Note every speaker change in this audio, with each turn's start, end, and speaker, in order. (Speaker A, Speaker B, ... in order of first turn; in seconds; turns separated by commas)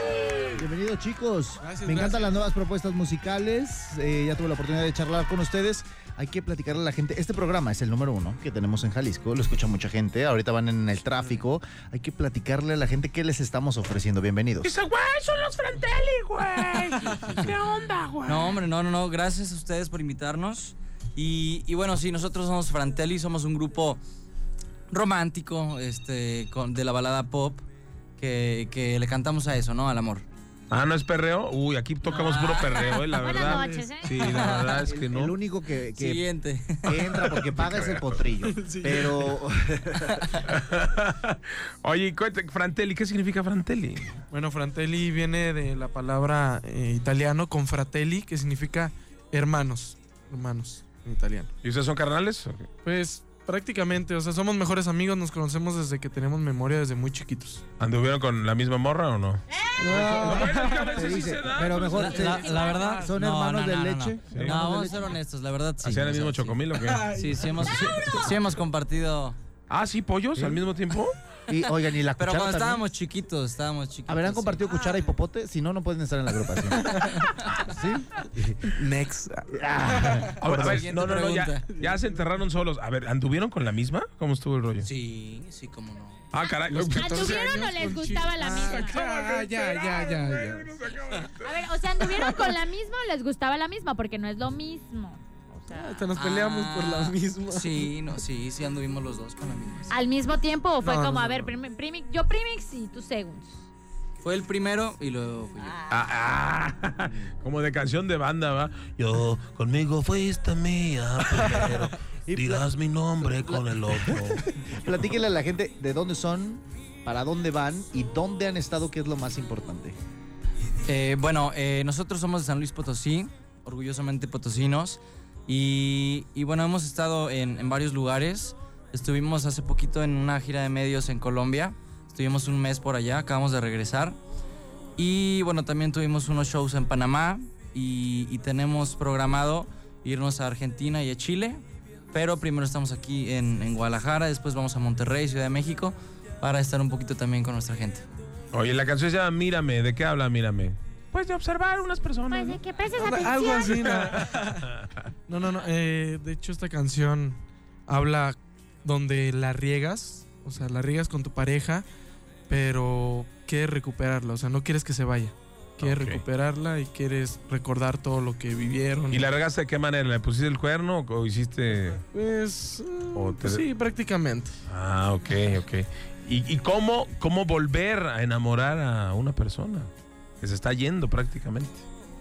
Speaker A: 0.5-14.7, Speaker B: 1.6-2.4, Speaker C: 14.6-18.6, Speaker D: 18.2-24.0, Speaker D: 24.9-27.6, Speaker D: 28.2-30.2, Speaker C: 30.7-35.3, Speaker D: 32.0-33.0, Speaker E: 33.2-34.1, Speaker D: 34.2-34.9, Speaker A: 34.9-36.2, Speaker D: 35.9-37.1, Speaker A: 36.8-40.3, Speaker C: 37.5-38.2, Speaker B: 38.4-39.3, Speaker C: 40.5-44.2, Speaker B: 44.3-51.5, Speaker C: 51.6-52.7, Speaker B: 52.8-57.6, Speaker C: 57.8-59.4, Speaker A: 59.8-65.1, Speaker B: 59.8-61.2, Speaker C: 60.0-62.3, Speaker D: 61.9-69.3, Speaker E: 62.2-62.9, Speaker C: 64.3-64.6, Speaker C: 65.8-67.1, Speaker B: 66.8-68.2, Speaker C: 69.7-71.2, Speaker A: 70.3-70.7, Speaker A: 71.5-72.8, Speaker D: 72.2-74.7, Speaker A: 74.1-77.0, Speaker D: 77.0-77.5, Speaker A: 77.6-78.8, Speaker B: 78.7-80.3, Speaker A: 79.5-80.8, Speaker C: 80.4-84.9, Speaker D: 80.5-81.7, Speaker D: 84.8-86.2, Speaker C: 86.3-87.5, Speaker B: 86.7-90.8, Speaker E: 86.9-89.0, Speaker C: 88.7-91.5, Speaker E: 91.4-96.0, Speaker B: 92.1-92.5, Speaker B: 95.7-97.9, Speaker D: 96.1-99.9, Speaker E: 99.9-103.6, Speaker B: 100.8-101.5, Speaker D: 104.2-105.8, Speaker C: 105.9-114.4, Speaker A: 112.3-112.7, Speaker A: 113.2-120.0, Speaker D: 120.8-134.2, Speaker D: 135.0-141.6, Speaker D: 142.1-148.0, Speaker C: 148.5-152.6, Speaker E: 152.3-153.8, Speaker B: 152.9-154.7, Speaker C: 153.9-154.3, Speaker B: 155.3-161.8, Speaker B: 162.5-169.2, Speaker C: 165.8-166.2, Speaker C: 169.1-172.0, Speaker B: 172.1-174.5, Speaker C: 173.1-173.6, Speaker C: 174.7-179.9, Speaker C: 180.4-181.8